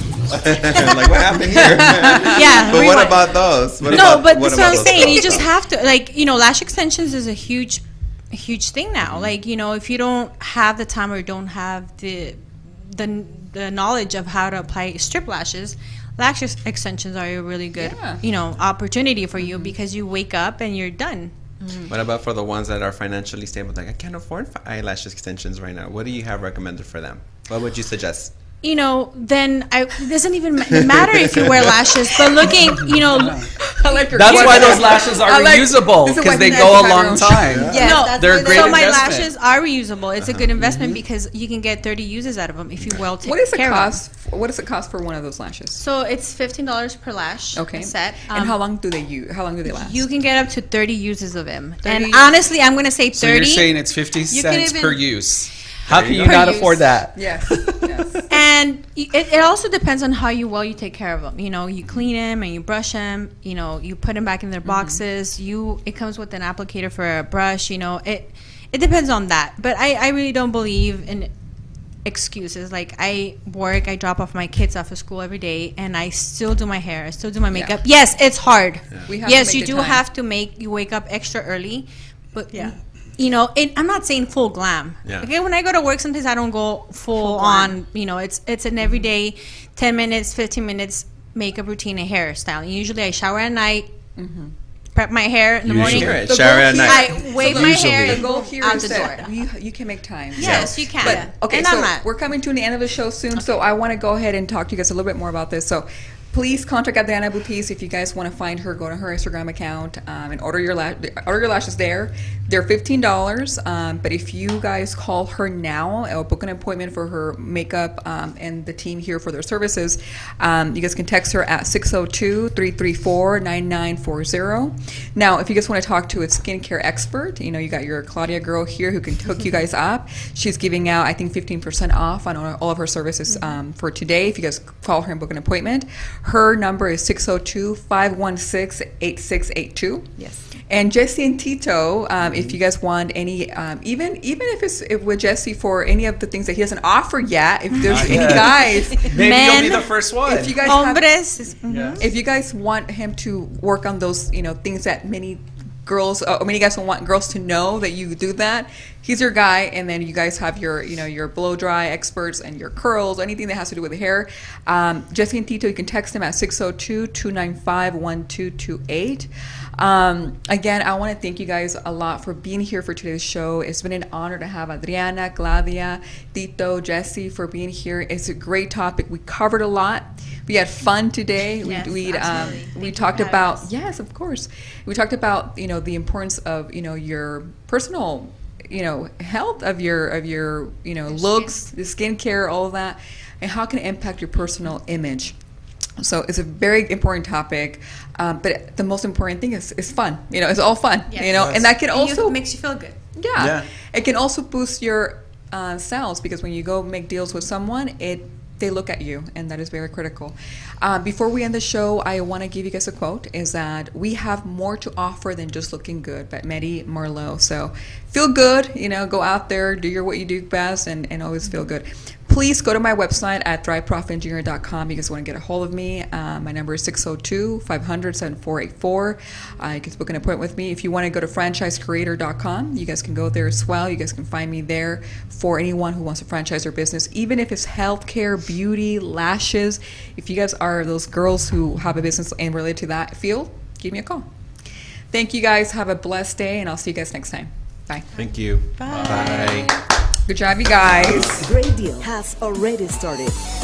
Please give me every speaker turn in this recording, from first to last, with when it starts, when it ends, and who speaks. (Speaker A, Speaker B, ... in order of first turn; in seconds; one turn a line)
Speaker A: 0.3-5.5
Speaker B: 0.5-0.9
Speaker C: 1.6-2.8
Speaker B: 1.8-21.9
Speaker A: 9.0-9.3
Speaker C: 17.8-18.2
Speaker C: 19.4-19.8
Speaker A: 21.9-28.3
Speaker B: 28.6-33.5
Speaker A: 30.7-31.9
Speaker D: 32.6-39.3
Speaker C: 33.6-37.7
Speaker B: 34.3-34.9
Speaker B: 36.5-36.7
Speaker E: 37.6-39.2
Speaker B: 37.7-44.0
Speaker A: 40.2-40.5
Speaker D: 40.6-41.0
Speaker C: 43.2-45.8
Speaker B: 45.8-48.6
Speaker C: 47.6-50.1
Speaker B: 49.6-53.7
Speaker E: 51.8-52.4
Speaker D: 53.1-57.8
Speaker E: 54.3-55.1
Speaker A: 55.9-56.4
Speaker B: 56.1-56.9
Speaker C: 57.1-58.3
Speaker B: 58.3-71.3
Speaker C: 64.7-65.0
Speaker B: 72.0-93.9
Speaker C: 79.1-80.0
Speaker E: 87.2-87.7
Speaker C: 94.2-94.5
Speaker B: 95.0-99.4
Speaker D: 95.7-96.3
Speaker A: 95.8-97.3
Speaker C: 96.1-140.1
Speaker D: 97.2-98.3
Speaker B: 100.4-102.1
Speaker E: 100.4-101.3
Speaker A: 100.4-100.7
Speaker E: 140.2-140.5
Speaker C: 140.7-149.2
Speaker D: 142.2-142.6
Speaker D: 147.8-150.8
Speaker B: 148.1-148.4
Speaker B: 149.0-149.9
Speaker C: 150.2-151.1
Speaker B: 150.6-152.1
Speaker D: 151.7-152.1
Speaker C: 152.0-195.4
Speaker B: 181.6-183.7
Speaker B: 191.1-191.6
Speaker C: 196.0-202.4
Speaker B: 201.1-203.0
Speaker D: 201.4-201.6
Speaker C: 203.2-244.3
Speaker D: 203.4-203.7
Speaker C: 245.1-248.1
Speaker A: 248.1-249.8
Speaker E: 248.8-249.7
Speaker D: 248.9-249.6
Speaker C: 250.3-251.5
Speaker A: 250.9-251.2
Speaker F: 251.4-253.4